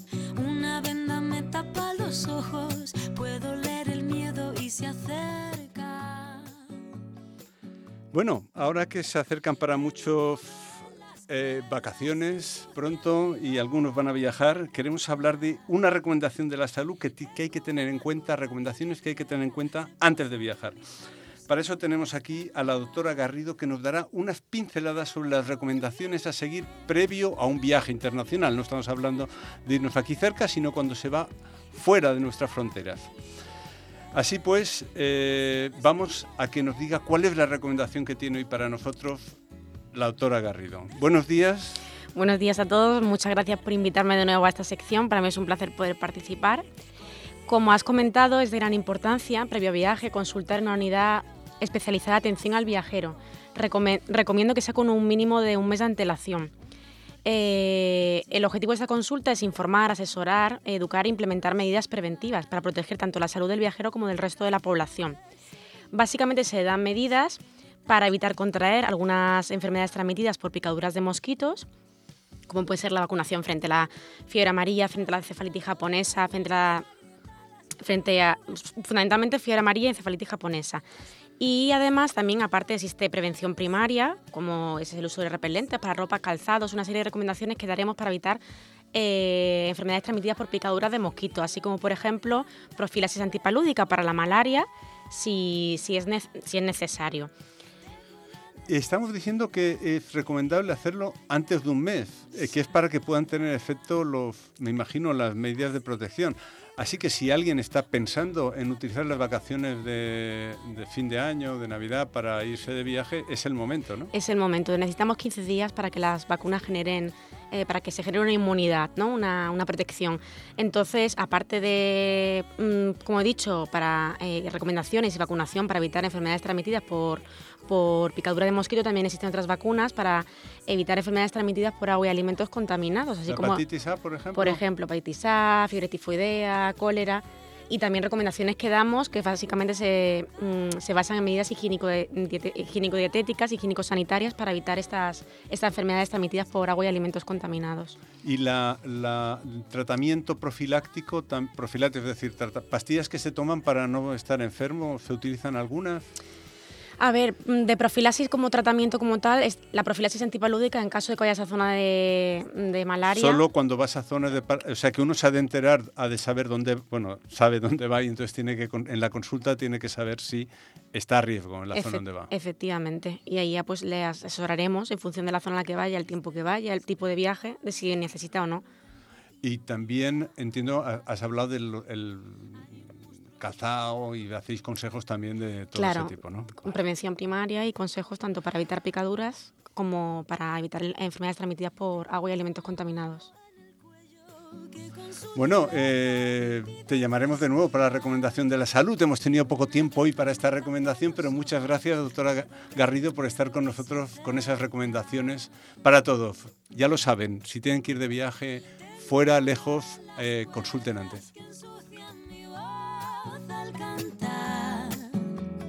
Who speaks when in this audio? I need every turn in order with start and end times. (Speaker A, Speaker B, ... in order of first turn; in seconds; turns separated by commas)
Speaker A: 0.3-6.6, Speaker B: 8.1-20.8, Speaker B: 21.5-33.1, Speaker B: 34.1-39.3, Speaker B: 39.9-41.8, Speaker C: 42.1-46.6, Speaker C: 47.5-56.5, Speaker C: 57.2-65.2, Speaker C: 65.9-71.7, Speaker C: 72.5-76.8, Speaker C: 77.8-80.8, Speaker C: 81.4-88.4, Speaker C: 88.9-97.3, Speaker B: 98.7-114.1, Speaker C: 114.1-133.6, Speaker B: 133.3-134.6, Speaker C: 134.3-148.0, Speaker B: 148.2-156.0, Speaker C: 157.0-163.4, Speaker B: 163.1-172.3, Speaker C: 171.7-178.6, Speaker B: 179.4-186.5, Speaker C: 185.8-193.3, Speaker A: 193.8-196.9, Speaker B: 195.3-211.2, Speaker A: 211.2-215.3